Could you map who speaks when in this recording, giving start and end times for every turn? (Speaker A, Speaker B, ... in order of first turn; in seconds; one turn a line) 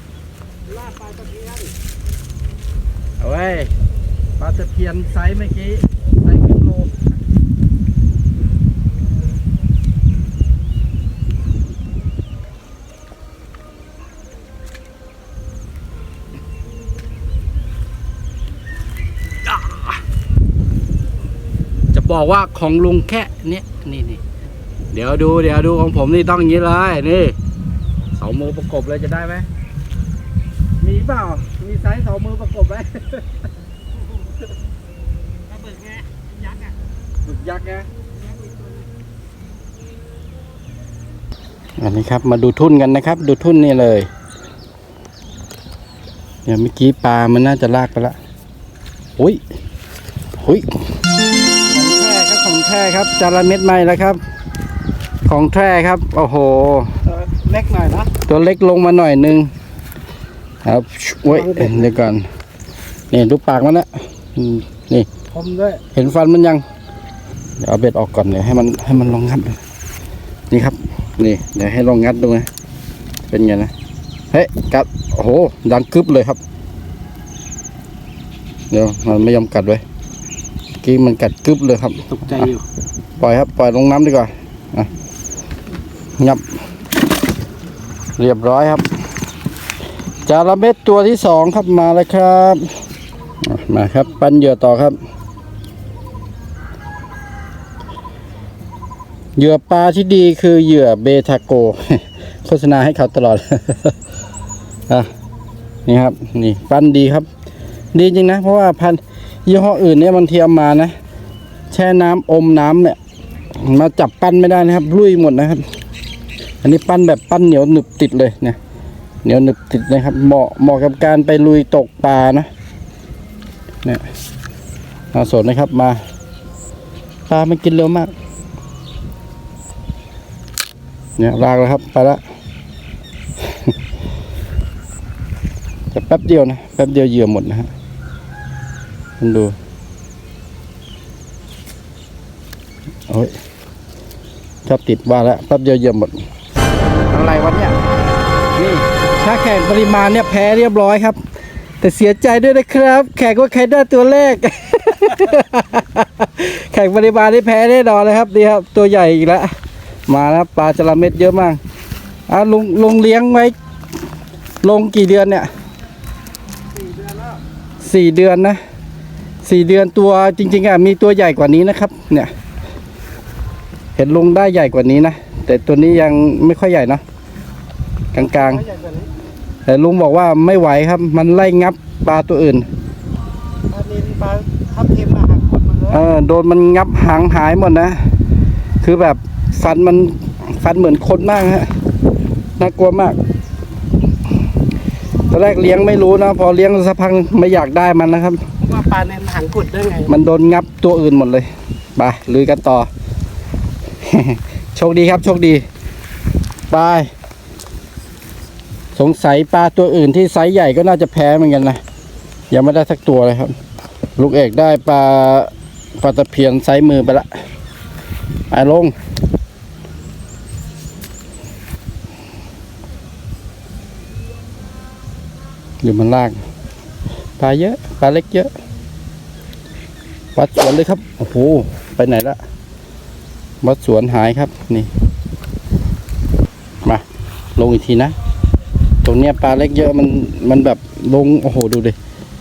Speaker A: 0.7-1.7
Speaker B: 3.2-3.7
Speaker B: 4.4-7.0
Speaker B: 19.5-20.0
Speaker B: 21.9-24.2
Speaker B: 24.9-27.4
Speaker B: 28.2-29.5
Speaker B: 30.8-33.3
Speaker A: 35.5-36.8
Speaker B: 37.2-37.9
Speaker A: 38.1-38.9
Speaker B: 41.8-44.1
Speaker B: 46.5-48.2
Speaker B: 50.4-50.8
Speaker B: 51.7-54.2
Speaker B: 55.2-57.0
Speaker A: 57.0-58.1
Speaker B: 58.3-59.5
Speaker B: 60.6-62.2
Speaker A: 61.3-61.9
Speaker B: 63.1-65.1
Speaker A: 65.3-65.8
Speaker B: 65.9-66.6
Speaker B: 67.6-69.6
Speaker B: 70.5-72.5
Speaker B: 73.3-73.7
Speaker B: 74.3-76.4
Speaker B: 78.7-79.8
Speaker B: 80.8-82.5
Speaker A: 82.0-82.6
Speaker B: 83.2-84.9
Speaker B: 86.2-86.5
Speaker B: 88.2-88.9
Speaker B: 90.2-92.7
Speaker B: 93.4-95.0
Speaker B: 99.4-104.0
Speaker B: 105.9-107.3
Speaker B: 107.9-111.0
Speaker B: 111.7-113.0
Speaker B: 113.6-115.6
Speaker B: 116.6-118.6
Speaker B: 119.2-122.5
Speaker B: 125.1-126.0
Speaker B: 127.3-128.1
Speaker B: 131.2-132.2
Speaker B: 133.4-133.7
Speaker B: 135.9-137.7
Speaker B: 139.2-139.5
Speaker B: 143.1-143.3
Speaker B: 144.6-146.2
Speaker B: 147.1-147.8
Speaker B: 148.6-151.2
Speaker B: 151.8-159.5
Speaker B: 160.1-161.6
Speaker B: 162.3-163.5
Speaker B: 164.6-165.5
Speaker A: 166.7-167.4
Speaker B: 167.8-168.6
Speaker B: 169.4-172.3
Speaker B: 174.0-177.0
Speaker B: 178.1-178.6
Speaker A: 178.1-179.1
Speaker B: 179.7-182.7
Speaker A: 183.7-186.1
Speaker B: 185.9-188.0
Speaker B: 188.8-191.7
Speaker B: 192.6-193.2
Speaker B: 195.3-198.4
Speaker A: 198.6-200.1
Speaker B: 200.1-202.9
Speaker B: 204.0-205.6
Speaker B: 206.7-207.1
Speaker B: 209.0-211.8
Speaker B: 212.5-213.5
Speaker B: 214.2-217.3
Speaker B: 218.5-218.9
Speaker B: 225.8-226.4
Speaker B: 227.4-228.5
Speaker B: 230.4-232.4
Speaker B: 233.6-234.9
Speaker B: 237.6-238.2
Speaker B: 239.0-242.0